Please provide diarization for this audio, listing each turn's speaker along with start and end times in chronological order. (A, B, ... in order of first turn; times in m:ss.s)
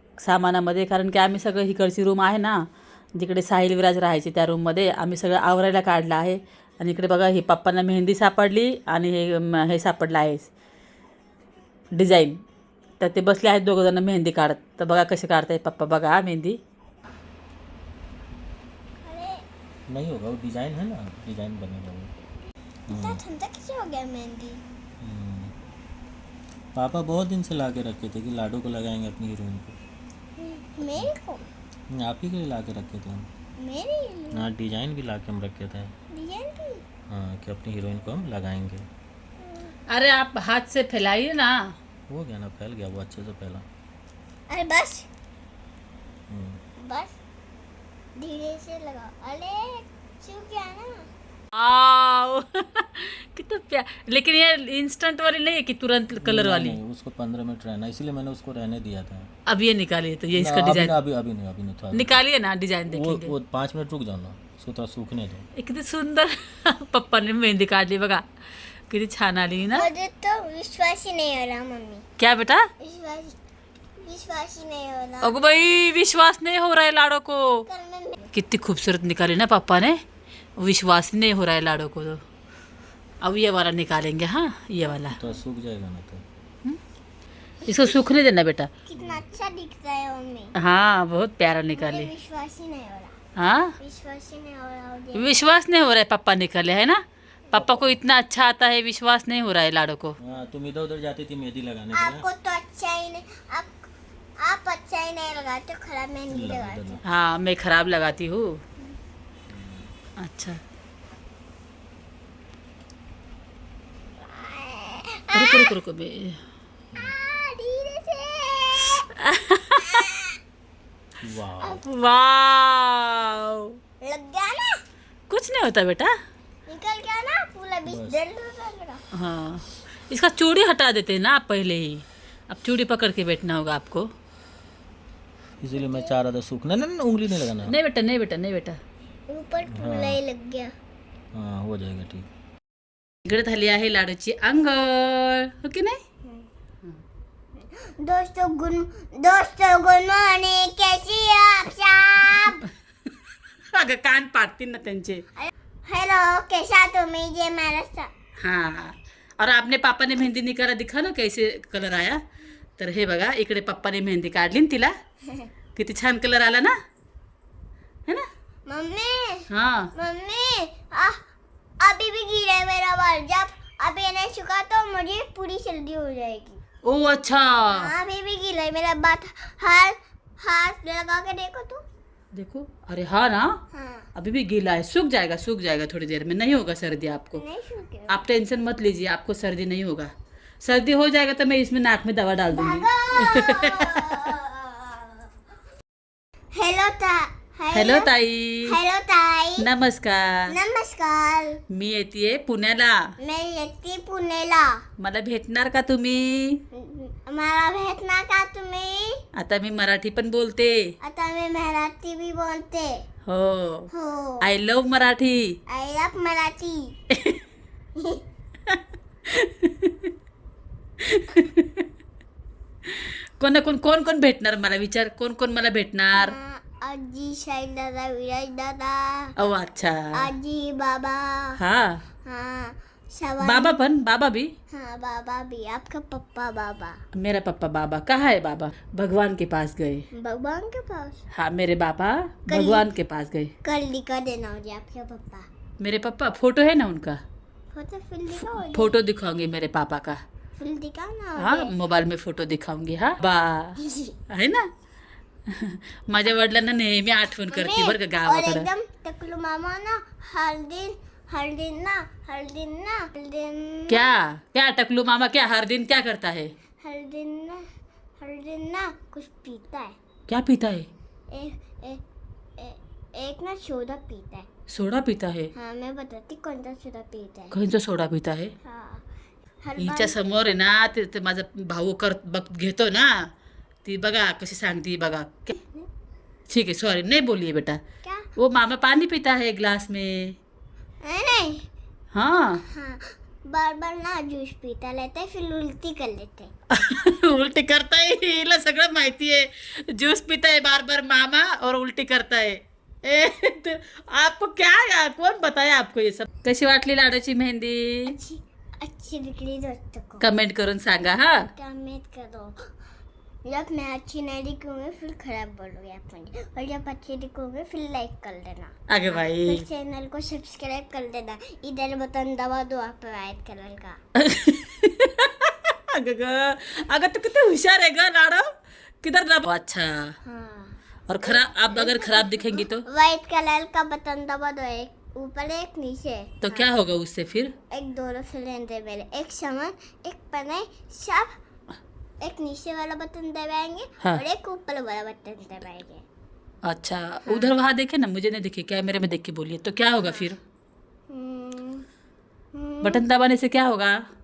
0:00.2-0:02.6 A
0:03.2-0:10.5 A
0:11.9-0:12.4 A
0:13.0-0:16.6 A
0:19.0-0:19.4 B
0:19.9-0:22.1 C
0:22.9-0:23.2 C
0:22.9-0:24.6 B
0:25.0-0:25.5 C
0:26.7-0:29.8 C
0:30.4-0:31.4 B
0:30.8-0:31.1 C
0:31.9-0:33.3 C
0:33.6-0:34.5 B
0:34.3-0:35.9 C
0:36.1-0:36.8 B
0:37.1-0:38.8 C
0:39.4-0:39.7 B
0:39.9-0:41.7 A
0:42.1-0:43.6 C
0:44.5-0:45.1 B
0:46.3-0:46.6 C
0:46.8-0:47.2 B
0:48.2-0:51.0 B
0:51.5-0:56.8 A
0:56.2-0:59.3 C
0:59.5-1:00.9 A
1:00.3-1:02.2 C
1:01.9-1:03.3 A
1:02.9-1:05.5 C
1:05.6-1:08.2 A
1:08.9-1:09.9 A
1:09.7-1:12.0 B
1:12.2-1:12.7 A
1:12.8-1:13.3 B
1:14.0-1:15.3 B
1:15.2-1:17.7 A
1:17.7-1:18.2 B
1:18.3-1:20.0 A
1:20.6-1:22.2 A
1:23.2-1:25.2 A
1:25.1-1:26.2 C
1:27.6-1:28.7 A
1:28.8-1:30.5 B
1:29.0-1:29.2 C
1:30.6-1:32.1 A
1:31.7-1:33.2 B
1:33.4-1:33.7 A
1:33.8-1:35.3 B
1:35.1-1:40.2 A
1:37.5-1:38.0 C
1:40.2-1:42.2 C
1:41.9-1:43.9 B
1:44.4-1:47.0 B
1:46.3-1:47.0 C
1:47.0-1:48.6 A
1:49.5-1:49.9 C
1:50.2-1:50.6 A
1:54.3-1:55.7 B
1:55.3-1:56.4 A
1:56.9-1:59.0 B
1:59.1-2:00.1 A
1:59.8-2:00.4 B
2:01.2-2:01.8 C
2:01.7-2:03.8 A
2:04.0-2:04.8 B
2:05.3-2:06.1 A
2:06.7-2:09.0 B
2:07.8-2:08.2 C
2:09.1-2:14.1 A
2:15.6-2:17.7 C
2:15.7-2:16.1 B
2:17.6-2:18.8 A
2:19.3-2:20.7 B
2:19.7-2:20.2 C
2:21.3-2:22.3 C
2:23.2-2:26.0 A
2:27.7-2:32.6 B
2:32.6-2:33.1 A
2:33.7-2:35.2 A
2:35.4-2:38.1 B
2:38.4-2:42.2 A
2:42.8-2:44.9 A
2:45.7-2:46.7 A
2:48.7-2:51.2 B
2:49.5-2:49.9 A
2:51.8-2:56.6 B
2:56.8-2:57.9 A
2:57.7-3:01.8 B
3:02.3-3:03.6 A
3:03.7-3:04.1 B
3:04.1-3:07.4 A
3:07.4-3:08.2 B
3:08.1-3:14.4 A
3:12.5-3:15.3 B
3:16.5-3:18.1 B
3:17.7-3:18.8 A
3:18.6-3:19.6 B
3:19.6-3:20.6 A
3:20.5-3:21.6 B
3:21.7-3:23.1 A
3:23.2-3:24.8 B
3:25.0-3:26.6 A
3:26.7-3:29.2 B
3:29.4-3:30.9 A
3:31.0-3:33.0 B
3:33.2-3:35.6 A
3:33.9-3:34.4 B
3:35.7-3:37.0 B
3:37.1-3:37.4 A
3:38.0-3:38.2 B
3:38.7-3:40.1 A
3:41.0-3:41.9 A
3:42.8-3:46.3 A
3:46.2-3:49.3 B
3:49.4-3:50.3 A
3:50.1-3:51.6 B
3:51.6-3:52.0 A
3:52.2-3:53.8 B
3:53.4-3:54.5 A
3:54.7-3:57.0 B
3:57.1-4:00.0 A
4:00.1-4:01.2 B
4:01.3-4:03.5 A
4:02.5-4:02.8 B
4:03.6-4:05.5 B
4:05.8-4:07.2 A
4:07.7-4:09.0 B
4:08.7-4:10.2 A
4:10.6-4:11.7 B
4:11.4-4:14.7 A
4:13.8-4:14.2 B
4:15.5-4:18.7 A
4:17.5-4:24.1 B
4:23.9-4:26.5 A
4:26.8-4:27.6 B
4:28.2-4:30.0 B
4:30.3-4:30.9 A
4:31.3-4:32.0 B
4:32.6-4:34.5 B
4:34.7-4:35.5 A
4:35.5-4:37.5 B
4:37.5-4:38.5 A
4:38.6-4:39.0 B
4:39.6-4:40.1 B
4:39.8-4:43.3 A
4:43.8-4:45.6 A
4:46.5-4:47.8 A
4:48.4-4:50.4 A
4:51.0-4:51.7 B
4:52.1-4:52.6 A
4:52.7-4:56.5 B
4:56.7-5:08.1 A
5:08.1-5:10.2 B
5:10.2-5:11.5 A
5:11.6-5:12.6 B
5:13.4-5:24.0 B
5:18.9-5:19.6 A
5:24.2-5:30.1 A
5:30.2-5:36.6 B
5:31.1-5:32.8 A
5:36.4-5:37.5 A
5:37.7-5:41.3 B
5:42.2-5:46.0 B
5:46.6-5:50.4 A
5:47.2-5:47.5 B
5:50.0-5:50.3 B
5:51.1-5:51.8 B
5:52.5-5:53.0 B
5:52.8-5:54.0 A